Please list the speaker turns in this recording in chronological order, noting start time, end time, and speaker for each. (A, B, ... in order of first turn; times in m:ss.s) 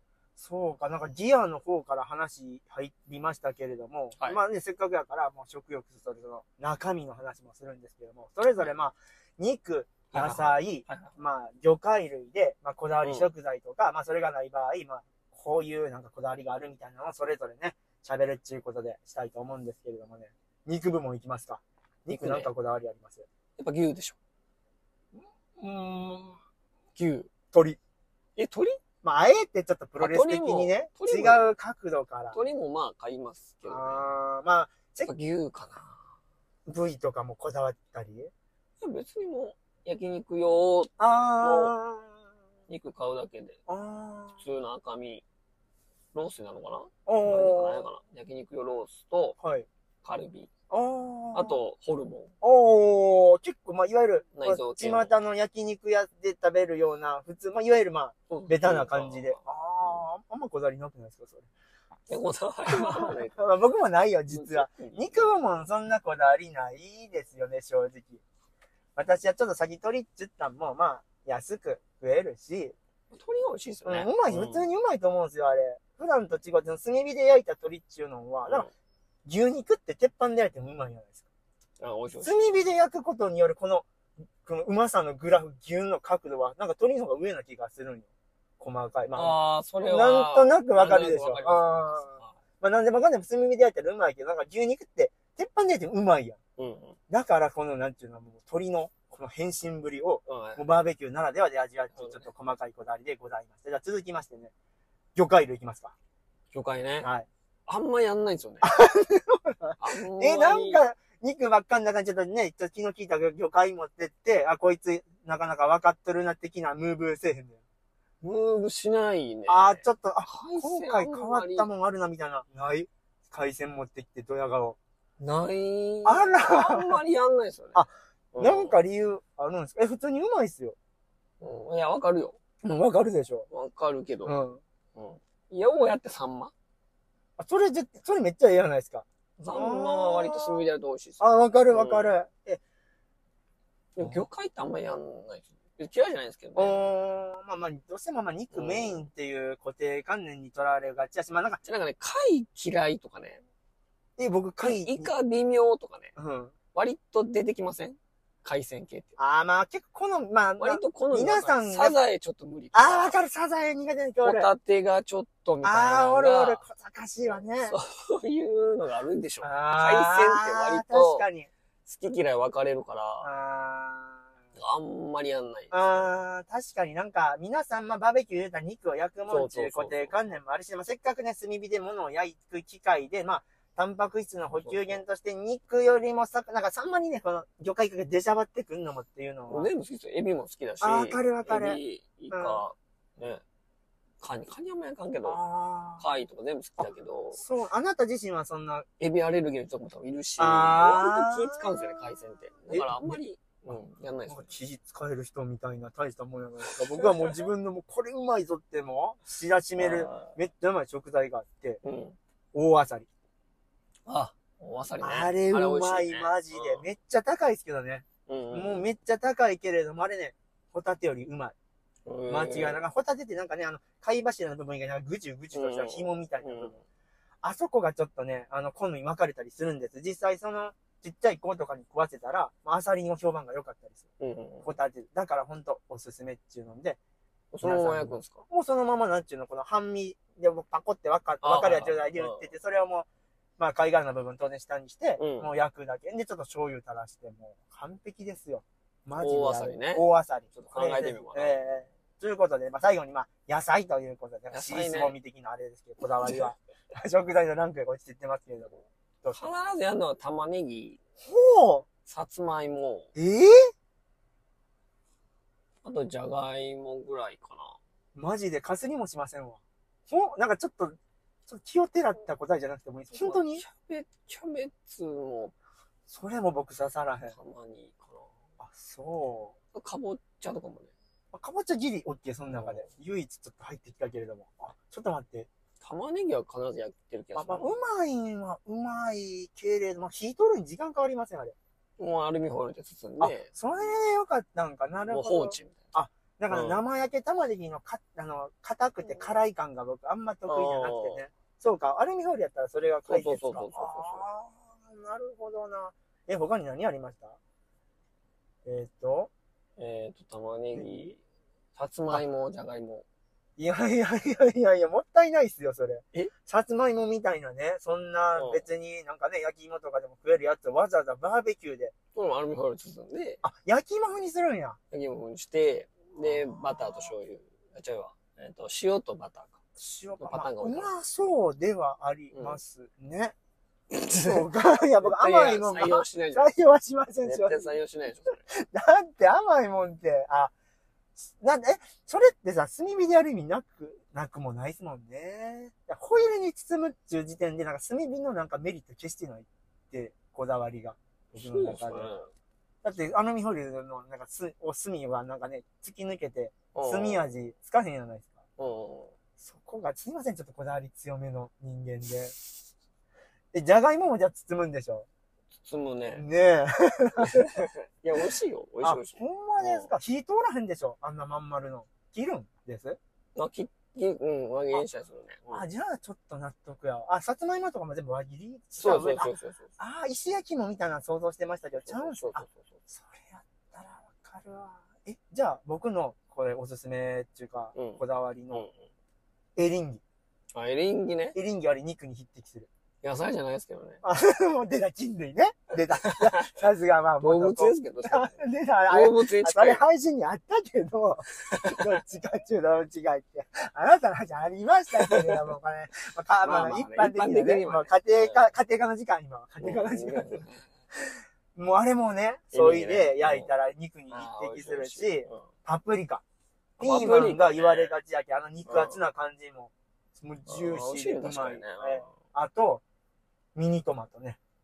0:00.4-0:23.3 A
0:10.1-0:11.2 B
0:13.0-0:13.3 B
0:22.1-0:22.5 B
0:23.6-0:24.2 B
0:25.2-0:26.4 A
0:27.0-0:27.3 B
0:27.5-0:27.8 A
0:28.4-0:28.8 B
0:29.0-0:32.4 A
0:30.0-0:31.5 B
0:32.3-0:34.1 B
0:33.7-0:35.1 A
0:35.0-0:36.0 B
0:36.7-0:38.3 A
0:38.8-0:41.7 B
0:41.0-0:42.2 A
0:42.7-0:43.6 B
0:43.7-0:44.4 A
0:44.4-0:45.2 B
0:46.1-0:49.4 B
0:47.1-0:47.8 A
0:49.4-0:49.7 A
0:50.0-0:50.5 B
0:50.7-0:51.6 A
0:51.3-0:52.3 B
0:52.4-1:01.5 A
0:54.3-0:55.1 B
0:58.3-1:00.0 B
1:02.1-1:03.4 B
1:02.7-1:08.2 A
1:04.3-1:05.4 B
1:09.0-1:12.8 A
1:13.1-1:14.7 B
1:13.9-1:18.7 A
1:18.5-1:18.7 B
1:19.3-1:21.3 A
1:21.8-1:22.5 B
1:22.2-1:23.9 A
1:24.4-1:28.1 A
1:28.6-1:36.4 A
1:29.1-1:32.4 B
1:36.6-1:37.0 B
1:37.1-1:44.5 A
1:40.3-1:40.6 B
1:42.0-1:42.3 B
1:45.2-1:46.0 A
1:46.5-1:47.1 B
1:47.0-1:47.3 A
1:47.7-1:48.8 B
1:48.6-1:57.6 A
1:49.8-1:50.8 B
1:58.2-2:01.7 B
1:59.5-2:04.8 A
2:05.2-2:07.8 B
2:06.0-2:07.0 A
2:07.8-2:10.8 A
2:08.3-2:08.8 B
2:11.4-2:12.4 B
2:12.6-2:13.5 A
2:13.5-2:14.4 B
2:14.2-2:14.6 A
2:15.0-2:16.5 B
2:17.4-2:20.7 A
2:19.4-2:22.1 B
2:21.2-2:22.6 A
2:24.0-2:26.8 B
2:24.0-2:24.3 A
2:26.6-2:31.6 A
2:28.5-2:29.1 B
2:31.6-2:33.4 B
2:34.2-2:35.1 A
2:34.6-2:36.1 B
2:36.2-2:36.5 A
2:36.7-2:39.1 B
2:39.2-2:42.0 A
2:40.6-2:43.2 B
2:42.7-2:44.5 A
2:44.2-2:46.6 B
2:45.6-2:47.8 A
2:47.6-2:51.2 B
2:49.4-2:51.5 A
2:51.8-2:53.3 B
2:53.2-2:54.2 A
2:54.6-2:56.0 B
2:55.7-3:09.7 A
2:59.3-3:00.3 B
3:04.5-3:05.0 B
3:09.5-3:13.4 B
3:10.8-3:12.6 A
3:14.2-3:15.4 B
3:15.2-3:16.1 A
3:16.0-3:17.4 B
3:17.3-3:18.9 A
3:19.0-3:24.5 B
3:20.4-3:23.2 A
3:24.3-3:31.8 A
3:26.7-3:27.4 B
3:29.8-3:30.4 B
3:31.8-3:32.2 B
3:32.5-3:33.1 A
3:34.1-3:36.8 B
3:35.0-3:41.6 A
3:38.3-3:38.9 B
3:42.1-3:42.8 B
3:42.3-3:46.8 A
3:45.5-3:46.8 B
3:47.4-3:54.1 A
3:54.2-3:54.7 B
3:54.6-3:57.0 A
3:57.5-3:58.4 B
3:57.6-4:03.1 A
4:01.4-4:02.5 B
4:03.6-4:19.5 A
4:05.2-4:05.5 B
4:09.2-4:11.6 B
4:14.5-4:15.2 B
4:19.3-4:21.0 B
4:21.2-4:21.9 A
4:22.1-4:23.1 B
4:23.2-4:23.7 A
4:25.8-4:27.8 B
4:28.2-4:33.6 A
4:33.1-4:35.5 B
4:36.1-4:37.4 A
4:37.3-4:38.3 B
4:38.6-4:39.6 A
4:39.7-4:40.9 B
4:41.3-4:45.5 A
4:42.5-4:42.9 B
4:45.8-4:47.8 B
4:47.4-4:51.6 A
4:52.0-4:53.5 B
4:53.2-5:07.4 A
4:55.1-4:55.8 B
4:56.5-4:56.8 B
4:59.0-4:59.4 B
5:00.5-5:01.2 B
5:03.1-5:04.2 B
5:08.6-5:09.3 A
5:09.8-5:11.2 B
5:10.7-5:11.1 A
5:11.8-5:13.0 B
5:13.6-5:21.9 A
5:18.4-5:18.7 B
5:22.2-5:23.4 B
5:23.4-5:24.8 A
5:24.9-5:29.6 B
5:26.2-5:27.1 A
5:29.8-5:33.4 A
5:30.2-5:30.9 B
5:32.3-5:32.6 B
5:33.9-5:36.5 B
5:34.2-5:37.8 A
5:37.2-5:38.4 B
5:38.5-5:40.5 A
5:41.2-5:52.2 A
5:51.4-5:52.3 B
5:52.8-5:58.4 A
5:56.7-5:57.2 B
5:58.6-5:59.1 B
5:59.4-6:02.4 A
6:03.5-6:05.1 A
6:05.6-6:06.2 B
6:06.1-6:07.6 A
6:07.2-6:09.9 B
6:08.8-6:13.0 A
6:13.4-6:15.7 B
6:15.5-6:28.7 A
6:18.8-6:19.7 B
6:21.8-6:22.7 B
6:27.8-6:28.8 B
6:29.6-6:30.0 A
6:30.5-6:31.4 B
6:31.3-6:32.7 A
6:33.0-6:34.0 B
6:34.0-6:56.2 A
6:36.0-6:36.5 B
6:37.2-6:39.8 B
6:41.5-6:41.8 B
6:45.0-6:45.4 B
6:46.4-6:48.5 B
6:49.6-6:50.7 B
6:52.5-6:53.5 B
6:54.1-6:55.5 B
6:56.8-6:57.9 B
6:56.8-7:02.8 A
6:58.7-6:59.0 B
7:00.5-7:02.2 B
7:03.6-7:04.4 A